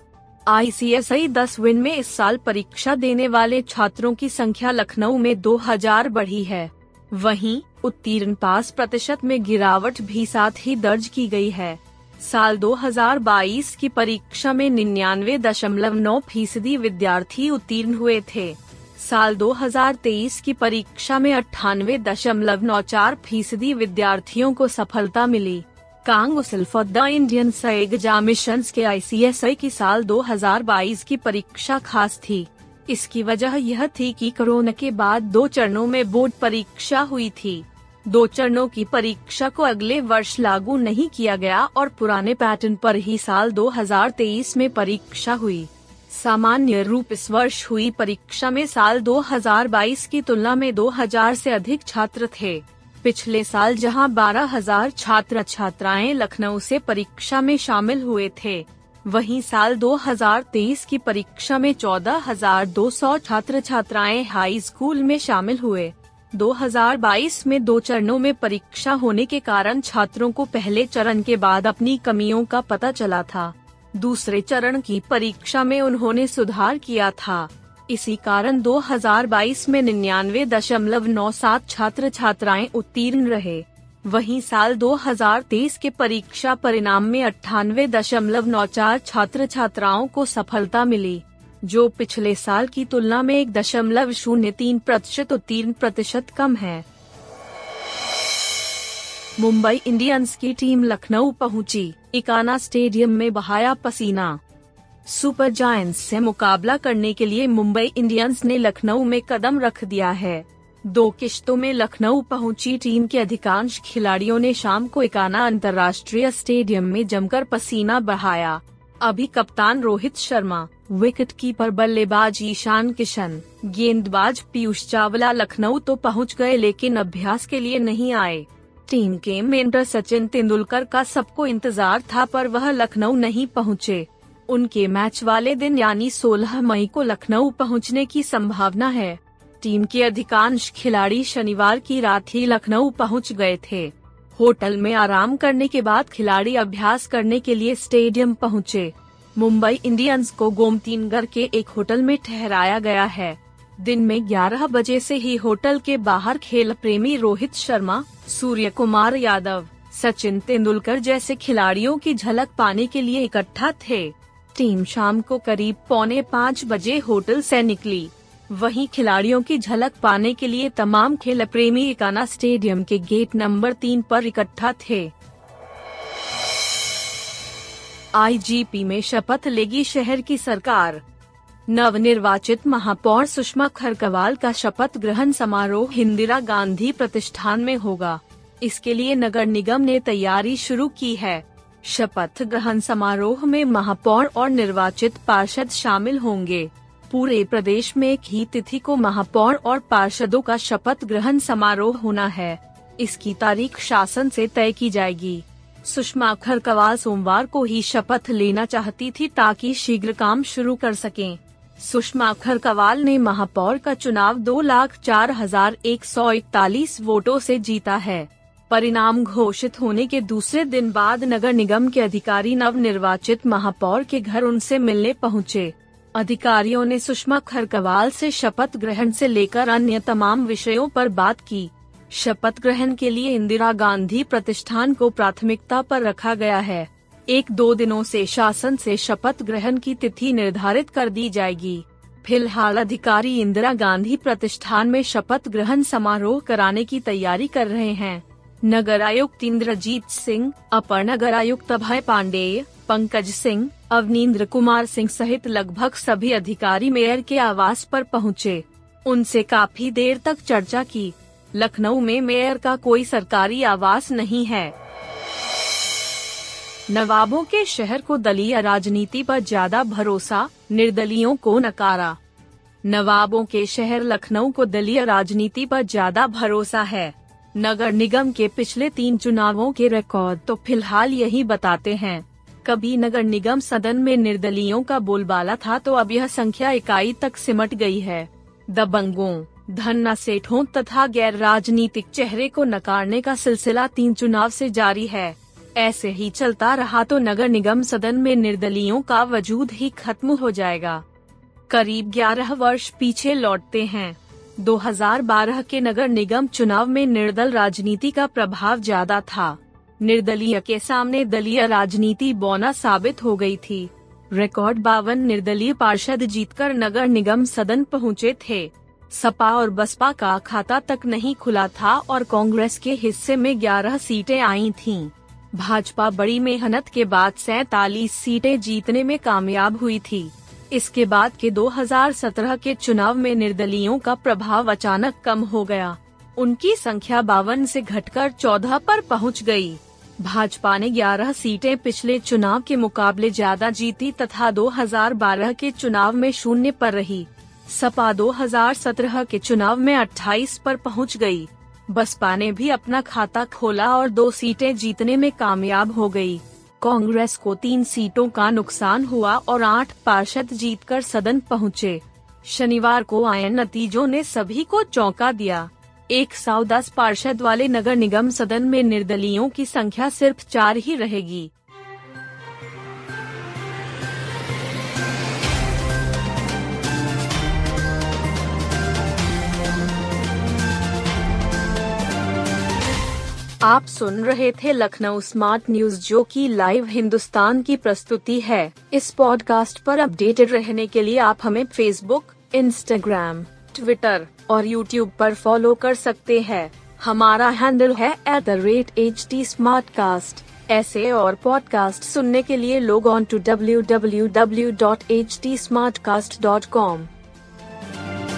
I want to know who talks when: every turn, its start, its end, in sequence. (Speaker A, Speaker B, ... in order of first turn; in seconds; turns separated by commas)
Speaker A: 0.5-96.8, Speaker A: 99.4-104.4, Speaker A: 105.0-175.1, Speaker A: 178.1-181.0, Speaker A: 181.7-264.7, Speaker A: 266.9-272.2, Speaker A: 272.8-301.0, Speaker A: 301.7-371.5, Speaker A: 383.6-407.1